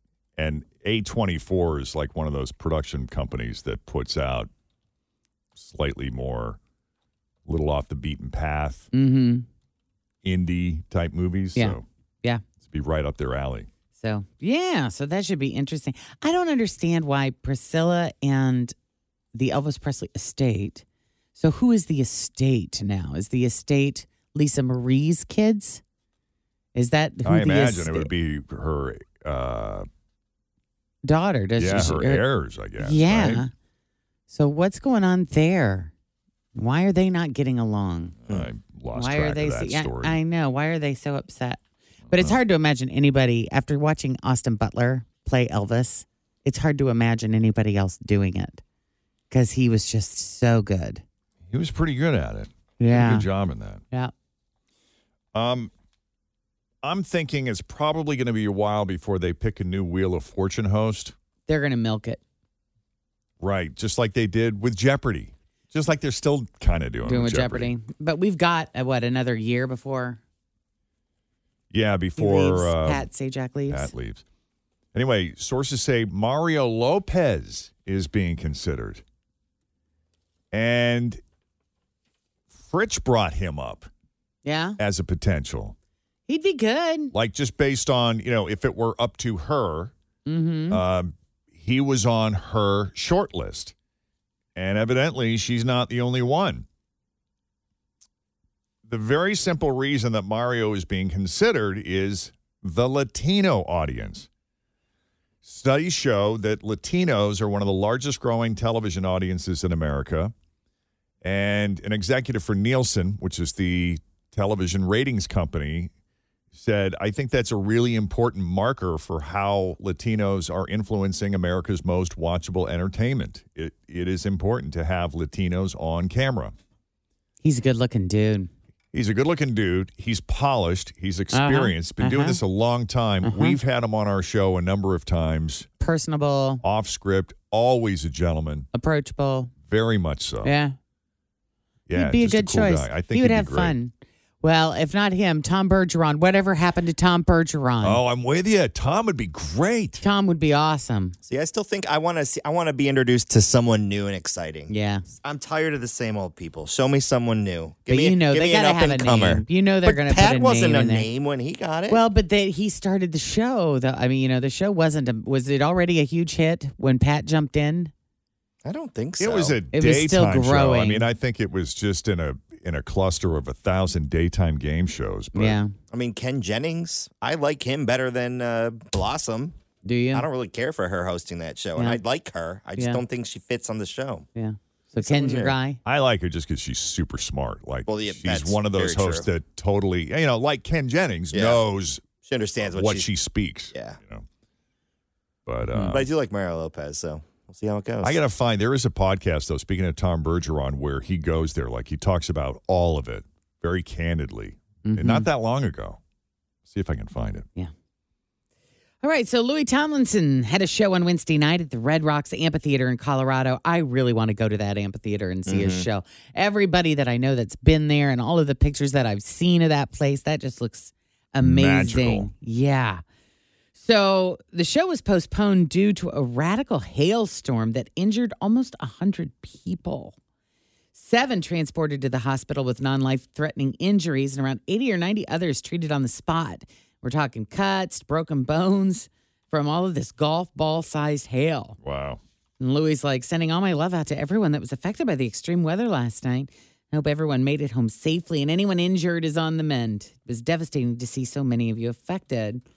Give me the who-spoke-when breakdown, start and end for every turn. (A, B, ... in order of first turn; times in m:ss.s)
0:00.4-0:04.5 A
0:05.6-0:06.6 A
0:07.5-0:08.9 A
0:08.9-0:09.5 B
0:10.2-0:11.8 A
0:11.6-0:12.4 B
0:12.6-0:13.7 A
0:14.0-0:18.7 B
0:19.3-0:20.8 B
0:21.4-0:25.8 B
0:26.8-0:28.1 B
0:27.2-0:29.9 A
0:31.0-0:32.2 B
0:31.6-0:33.4 A
0:32.8-0:33.5 B
0:34.3-0:35.9 B
0:36.6-0:38.2 B
0:38.3-0:40.2 A
0:38.9-0:48.6 B
0:42.1-0:42.4 A
0:49.3-0:51.0 B
0:51.5-0:53.8 A
0:52.8-0:53.3 B
0:55.3-0:55.7 A
0:56.8-1:01.1 A
1:01.5-1:02.2 B
1:03.4-1:07.7 A
1:07.0-1:10.2 B
1:11.7-1:13.1 A
1:12.2-1:13.9 B
1:13.7-1:14.2 A
1:14.9-1:19.0 A
1:20.5-1:21.2 A
1:22.5-1:23.9 A
1:24.4-1:24.8 B
1:24.8-1:25.8 A
1:26.3-1:27.1 B
1:27.1-1:29.9 A
1:30.3-1:30.8 B
1:30.7-1:33.8 A
1:34.6-1:36.7 A
1:38.8-1:44.3 A
1:45.4-1:50.3 A
1:51.2-1:55.9 A
1:56.5-2:06.6 A
2:07.4-2:08.5 B
2:08.9-2:15.7 A
2:11.3-2:12.4 B
2:13.2-2:13.6 B
2:15.8-2:16.6 B
2:16.6-2:18.7 A
2:18.7-2:19.5 B
2:19.6-2:20.5 A
2:20.4-2:20.8 B
2:21.9-2:23.8 A
2:21.9-2:28.0 B
2:27.8-2:30.0 A
2:30.0-2:31.2 B
2:31.3-2:42.0 C
2:34.7-2:35.0 B
2:37.9-2:41.1 B
2:41.9-2:47.9 B
2:48.6-2:49.6 C
2:49.2-2:55.6 A
2:49.7-2:51.1 B
2:55.3-2:55.7 B
2:55.9-2:59.6 C
2:59.8-3:00.3 B
3:00.1-3:04.3 C
3:01.8-3:02.0 B
3:04.4-3:05.8 B
3:05.0-3:05.6 C
3:05.8-3:12.0 A
3:07.9-3:09.3 C
3:11.3-3:11.6 C
3:12.2-3:13.1 C
3:12.6-3:14.3 A
3:15.5-3:16.1 A
3:15.7-3:16.0 B
3:15.9-3:18.2 C
3:18.0-3:26.0 A
3:24.8-3:25.3 B
3:26.7-3:27.5 A
3:29.0-3:43.0 B
3:35.5-3:35.9 C
3:41.4-3:42.3 A
3:43.8-3:50.2 B
3:50.9-4:01.8 B
4:01.8-4:02.2 A
4:02.6-4:12.6 B